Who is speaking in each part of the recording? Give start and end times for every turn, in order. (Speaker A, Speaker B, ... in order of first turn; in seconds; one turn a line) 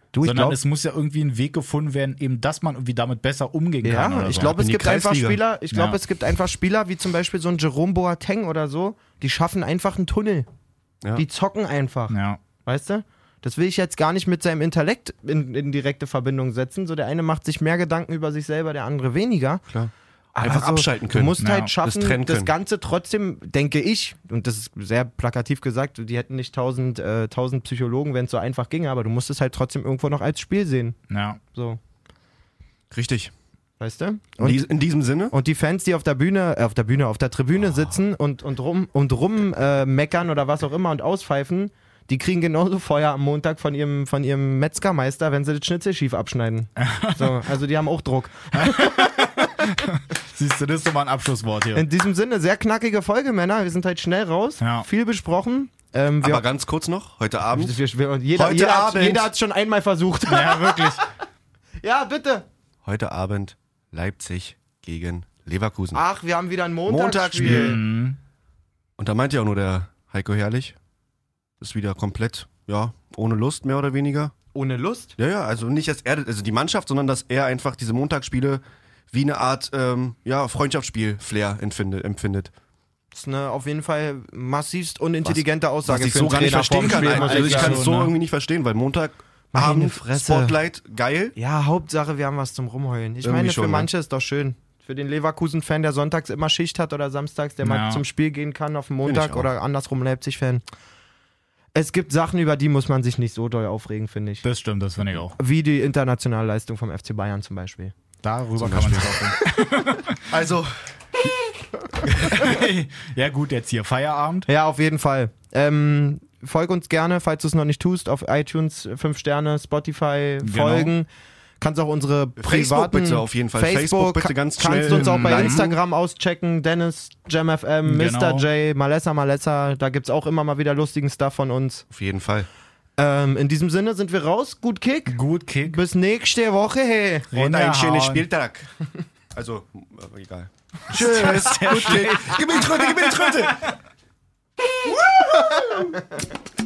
Speaker A: 0.1-0.6
Speaker B: 0.2-4.5
Speaker A: 3.8-10.5
Speaker C: 4.3-5.4
Speaker B: 5.7-6.0
Speaker A: 11.2-19.6
Speaker B: 12.1-12.4
Speaker C: 19.7-22.5
Speaker A: 20.3-31.0
Speaker B: 21.4-21.7
Speaker B: 31.1-31.4
Speaker A: 31.5-31.8
Speaker C: 32.9-33.3
Speaker A: 33.8-34.6
Speaker C: 34.4-35.3
Speaker A: 35.3-49.1
Speaker C: 37.6-37.9
Speaker B: 46.8-47.4
Speaker B: 48.5-51.8
Speaker A: 51.7-56.4
Speaker B: 54.6-54.9
Speaker C: 56.2-57.8
Speaker A: 57.5-61.0
Speaker C: 58.3-59.3
Speaker B: 60.3-61.0
Speaker A: 61.8-62.5
Speaker C: 62.8-66.0
Speaker A: 65.9-67.8
Speaker C: 66.9-67.8
Speaker B: 67.4-68.2
Speaker C: 69.0-70.8
Speaker C: 71.6-74.3
Speaker A: 74.5-75.2
Speaker C: 75.2-82.5
Speaker A: 83.1-87.8
Speaker C: 85.2-91.3
Speaker B: 86.4-88.1
Speaker A: 89.5-90.5
Speaker A: 91.3-100.6
Speaker C: 93.2-93.9
Speaker B: 97.6-98.0
Speaker C: 99.0-99.5
Speaker A: 101.7-104.4
Speaker B: 104.4-105.3
Speaker A: 105.4-107.9
Speaker B: 108.2-110.2
Speaker C: 108.6-109.3
Speaker C: 110.3-110.7
Speaker B: 112.0-114.5
Speaker C: 112.1-112.4
Speaker A: 114.5-121.1
Speaker B: 120.4-120.9
Speaker A: 121.6-131.8
Speaker C: 122.4-125.8
Speaker B: 124.9-125.7
Speaker B: 127.8-128.5
Speaker C: 131.9-132.5
Speaker A: 133.0-137.3
Speaker B: 135.1-135.8
Speaker B: 137.3-138.2
Speaker C: 137.3-138.7
Speaker C: 139.3-143.6
Speaker B: 140.9-143.7
Speaker A: 145.6-145.8